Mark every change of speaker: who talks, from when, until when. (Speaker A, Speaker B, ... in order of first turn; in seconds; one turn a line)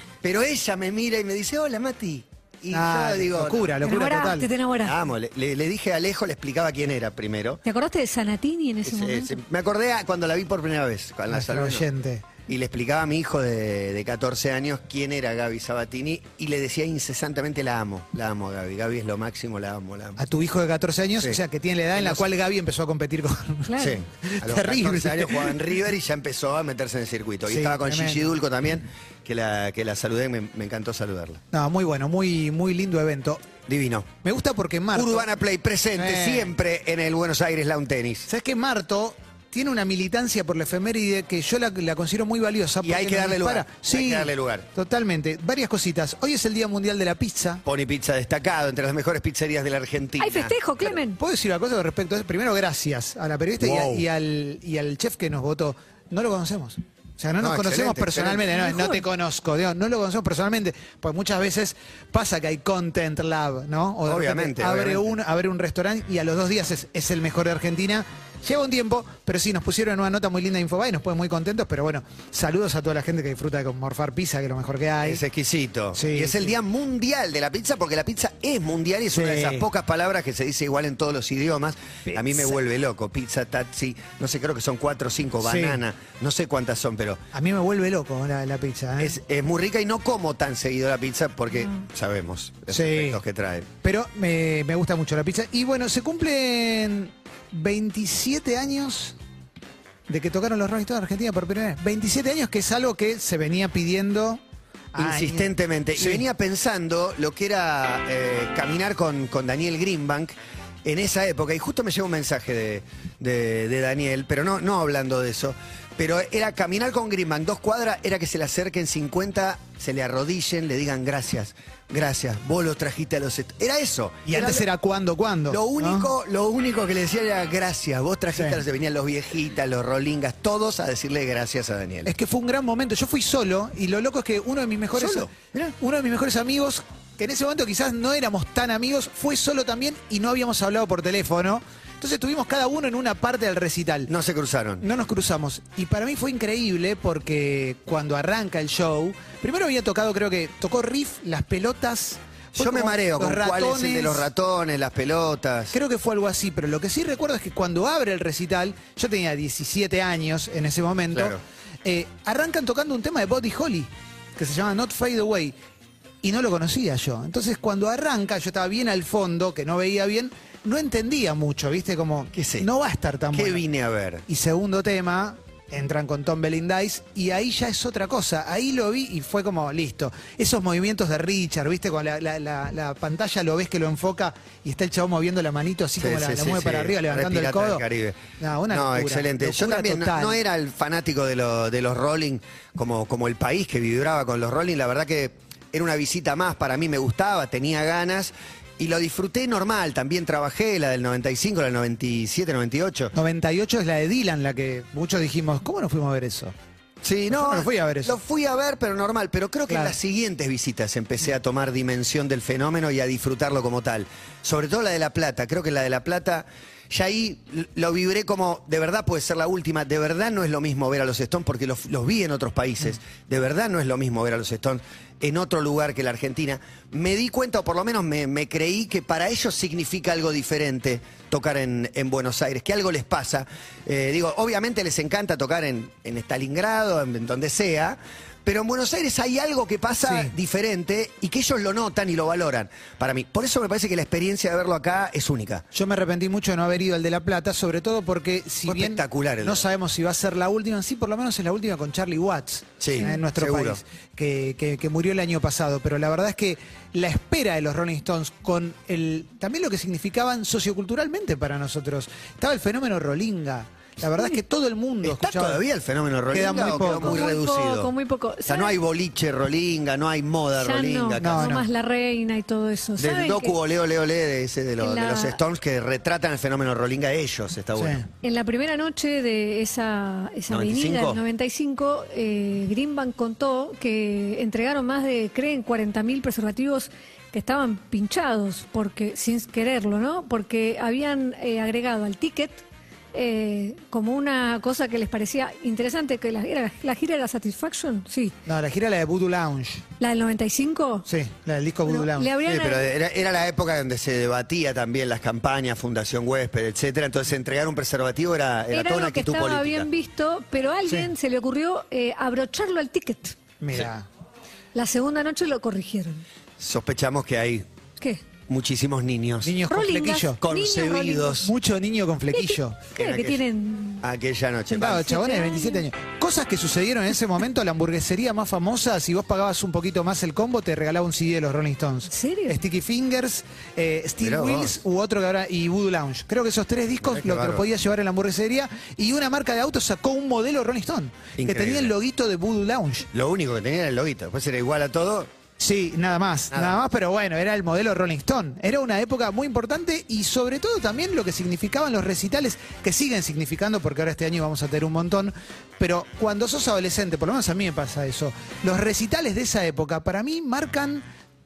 Speaker A: 0.2-3.9
Speaker B: 2.7-4.5
Speaker C: 3.8-5.0
Speaker A: 4.8-7.6
Speaker C: 7.7-9.4
Speaker A: 8.8-11.8
Speaker B: 11.3-12.2
Speaker A: 12.5-20.2
Speaker B: 20.2-25.6
Speaker A: 21.9-22.3
Speaker C: 23.7-24.0
Speaker A: 23.8-31.4
Speaker B: 27.5-28.3
Speaker B: 31.5-33.4
Speaker A: 33.7-34.1
Speaker B: 34.2-35.3
Speaker A: 34.9-38.3
Speaker B: 36.0-36.5
Speaker B: 38.3-47.6
Speaker A: 42.8-44.7
Speaker A: 47.6-50.5
Speaker C: 50.2-51.2
Speaker B: 51.2-75.2
Speaker A: 53.6-54.0
Speaker A: 57.4-58.5
Speaker C: 58.5-59.0
Speaker A: 64.0-65.1
Speaker A: 75.0-87.2
Speaker B: 76.0-76.5
Speaker B: 79.1-79.7
Speaker B: 82.1-82.6
Speaker B: 85.4-85.8
Speaker B: 87.3-89.2
Speaker A: 89.0-93.7
Speaker B: 92.7-93.2
Speaker B: 93.8-99.2
Speaker B: 100.1-104.4
Speaker B: 104.9-106.2
Speaker A: 105.0-124.7
Speaker B: 124.3-126.1
Speaker A: 125.5-132.1
Speaker B: 132.1-144.1
Speaker A: 135.0-135.6
Speaker A: 144.1-144.8
Speaker B: 144.8-154.3
Speaker A: 152.6-155.8
Speaker B: 155.7-165.6
Speaker A: 161.1-161.4
Speaker B: 166.2-173.7
Speaker A: 172.3-172.7
Speaker A: 173.3-174.2
Speaker B: 174.3-187.8
Speaker A: 186.0-203.1
Speaker B: 188.4-190.4
Speaker B: 203.2-206.5
Speaker A: 207.0-245.6
Speaker B: 207.3-208.2
Speaker B: 209.7-209.9
Speaker B: 240.0-240.3
Speaker B: 245.7-265.6
Speaker A: 248.7-249.6
Speaker A: 252.8-253.8
Speaker A: 265.0-267.9
Speaker B: 266.3-267.3
Speaker C: 266.5-268.8
Speaker A: 268.5-271.6
Speaker C: 270.6-273.6
Speaker B: 271.2-271.6
Speaker A: 273.0-278.0
Speaker C: 274.8-275.4
Speaker B: 277.8-278.1
Speaker C: 278.2-292.6
Speaker A: 280.5-281.2
Speaker C: 293.1-298.4
Speaker B: 298.5-299.8
Speaker C: 300.0-301.1
Speaker B: 301.1-302.3
Speaker C: 301.9-302.9
Speaker A: 302.4-309.9
Speaker C: 308.7-313.4
Speaker B: 313.6-314.1
Speaker C: 314.8-316.2
Speaker A: 316.6-317.7
Speaker A: 318.5-319.6
Speaker B: 319.4-320.4
Speaker C: 319.7-321.5
Speaker A: 320.4-321.5
Speaker B: 321.4-322.8
Speaker C: 322.3-324.0
Speaker A: 323.0-323.4
Speaker A: 324.0-325.1
Speaker B: 324.7-343.1
Speaker C: 324.8-325.8
Speaker C: 332.1-332.6
Speaker A: 334.2-334.8
Speaker A: 337.0-337.7
Speaker A: 341.4-341.9
Speaker A: 343.1-345.3
Speaker B: 345.6-361.0
Speaker A: 346.5-346.8